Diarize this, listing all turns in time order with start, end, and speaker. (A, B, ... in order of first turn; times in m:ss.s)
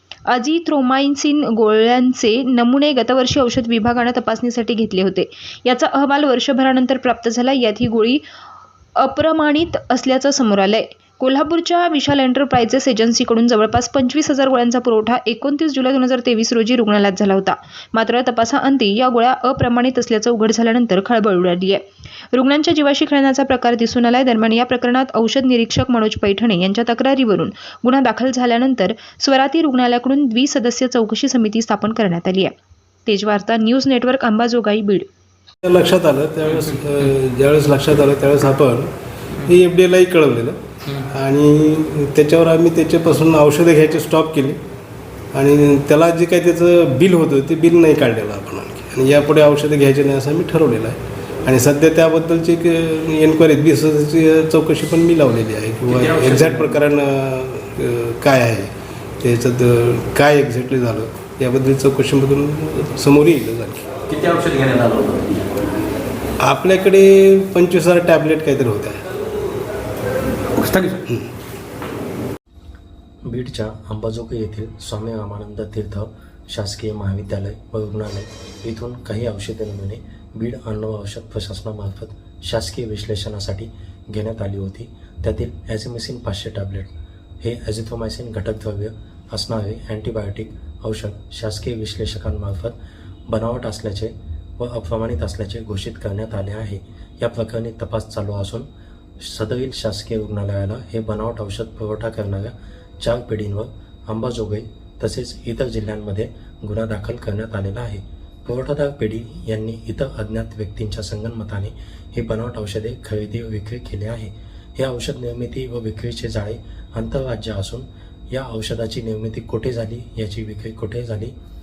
0:00.3-0:08.2 A
0:09.0-0:32.5 A
0:33.0-0:35.1 A
0:35.6-0:44.6 B
0:45.3-0:58.7 B
0:55.9-0:56.7 C
0:59.2-1:03.9 B
1:04.1-1:05.4 C
1:06.4-1:09.0 B
1:10.5-1:11.0 C
1:13.2-1:32.8 D
1:33.3-1:38.7 D
1:39.2-2:01.3 D